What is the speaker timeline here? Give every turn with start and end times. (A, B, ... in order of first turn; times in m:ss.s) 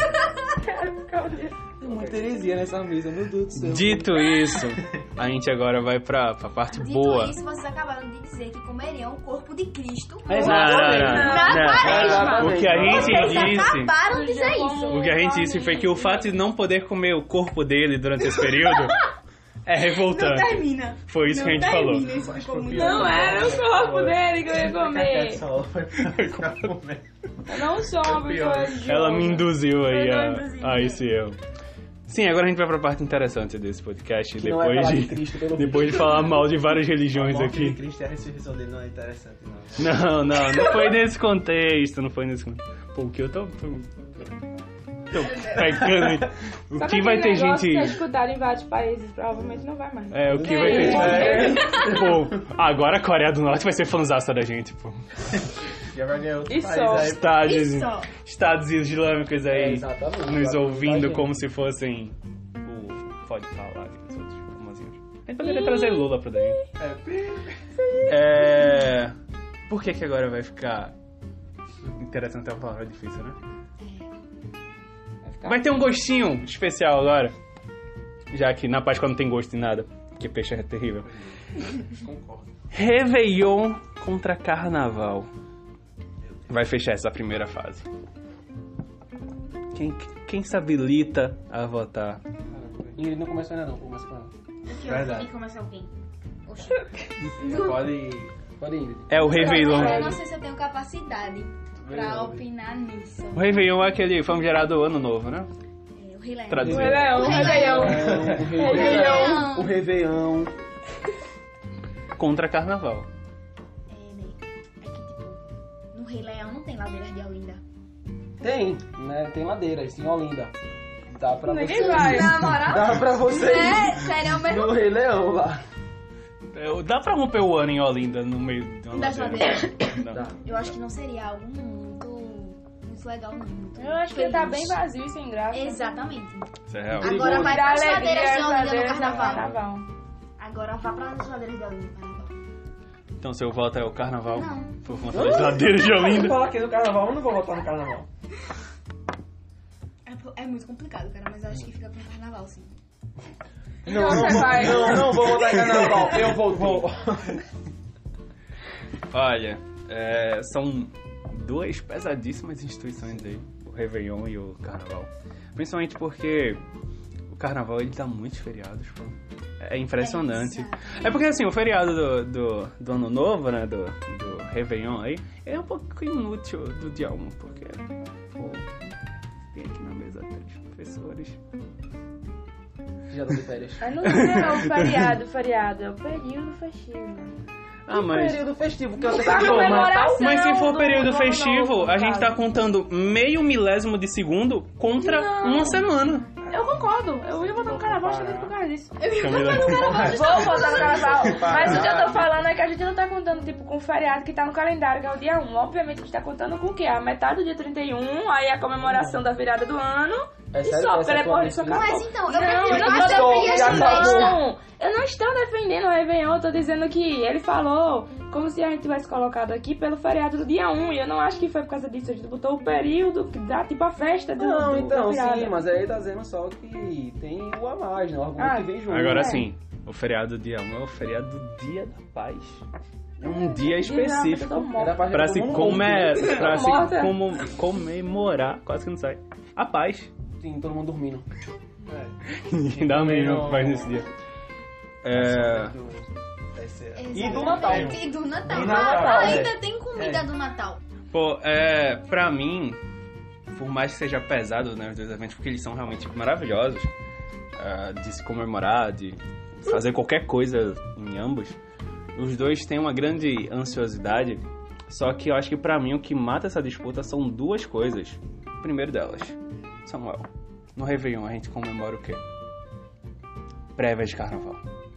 0:00.6-0:01.6 A
0:01.8-0:04.2 B
0:03.6-0:07.4 C
0:06.7-0:15.1 D
0:10.3-0:13.4 B
0:10.4-0:16.4 A
0:10.4-0:14.0 C
0:12.0-0:13.6 E
0:14.9-0:19.0 C
0:18.4-0:19.1 D
0:19.6-0:22.1 C
0:19.8-0:23.4 D
0:21.9-0:29.1 E
0:22.7-0:25.4 A
0:26.0-0:26.7 C
0:27.5-0:30.6 A
0:28.8-0:31.4 C
0:29.9-0:31.0 D
0:32.1-0:37.8 C
0:34.4-0:36.3 B
0:37.1-0:40.1 E
0:39.8-0:43.9 C
0:45.1-0:48.0 C
0:45.2-0:45.7 D
0:46.8-0:51.7 A
0:50.1-0:55.0 C
0:50.3-0:51.8 B
0:50.8-0:52.2 E
0:55.9-0:57.4 E
0:56.5-0:57.2 A
0:56.9-1:06.6 C
0:57.3-0:58.1 D
0:59.5-1:01.4 B
1:05.4-1:06.6 A
1:06.8-1:07.6 E
1:07.8-1:08.8 A
1:08.1-1:09.1 C
1:09.7-1:10.9 C
1:11.9-1:13.4 C
1:13.8-1:14.1 D
1:15.2-1:15.7 A
1:15.4-1:17.3 C
1:18.3-1:21.1 C
1:21.0-1:22.5 E
1:22.7-1:25.3 C
1:26.5-1:27.9 C
1:29.7-1:32.2 C
1:32.5-1:33.0 E
1:33.0-1:34.3 B
1:34.7-1:35.9 D
1:34.8-1:35.3 E
1:36.5-1:38.0 D
1:37.4-1:38.3 E
1:38.6-1:39.8 B
1:39.1-1:40.2 C
1:39.2-1:43.6 D
1:39.3-1:40.2 A
1:41.9-1:42.4 E
1:43.3-1:45.5 C
1:46.0-1:49.8 D
1:46.5-1:47.5 C
1:46.6-1:49.5 A
1:46.6-1:50.5 B
1:47.8-1:48.9 E
1:52.2-1:53.1 C
1:53.9-1:55.4 D
1:55.9-1:57.6 D
1:58.4-2:00.5 B
2:01.1-2:05.6 B
2:01.4-2:03.0 A
2:01.6-2:02.6 D
2:03.2-2:04.8 D
2:06.5-2:10.3 C
2:08.9-2:14.8 D
2:10.1-2:10.4 B
2:13.8-2:16.1 A
2:15.5-2:19.6 D
2:16.7-2:17.4 C
2:17.0-2:17.8 B
2:17.2-2:19.9 A
2:19.0-2:19.3 E
2:20.4-2:22.4 D
2:23.2-2:26.4 C
2:24.3-2:24.8 D
2:25.1-2:25.9 B
2:25.1-2:28.1 E
2:30.0-2:32.7 D
2:33.9-2:35.1 A
2:33.9-2:37.1 B
2:35.0-2:35.8 C
2:35.7-2:37.4 E
2:39.1-2:46.6 C
2:47.3-2:57.8 C
2:50.0-2:51.3 D
2:58.4-2:59.0 C
2:59.5-3:01.4 C
3:03.1-3:04.4 B
3:03.8-3:07.3 A
3:04.1-3:05.0 C
3:07.9-3:08.5 C
3:07.9-3:10.3 B
3:09.1-3:12.4 A
3:09.3-3:16.3 C
3:15.0-3:15.9 A
3:16.4-3:18.6 E
3:16.4-3:19.1 A
3:19.0-3:21.2 D
3:19.1-3:20.2 C
3:19.4-3:22.3 E
3:20.0-3:45.6 A
3:21.5-3:22.1 B
3:28.8-3:29.2 B
3:30.5-3:31.9 B
3:31.7-3:34.4 D
3:32.7-3:34.4 B
3:44.4-3:49.4 B
3:48.4-3:49.5 A
3:48.9-3:52.6 C
3:53.2-4:00.1 C
3:53.2-3:55.1 A
3:54.8-3:56.6 B
3:56.2-3:57.2 A
4:00.3-4:01.3 B
4:01.8-4:02.2 E
4:02.4-4:04.1 C
4:02.7-4:04.0 E
4:05.0-4:05.7 C
4:05.1-4:10.3 E
4:07.0-4:10.8 D
4:07.1-4:09.0 B
4:09.1-4:09.4 A
4:11.1-4:12.8 C
4:13.5-4:16.9 C
4:17.6-4:21.6 C
4:22.2-4:32.2 C
4:33.8-4:34.6 C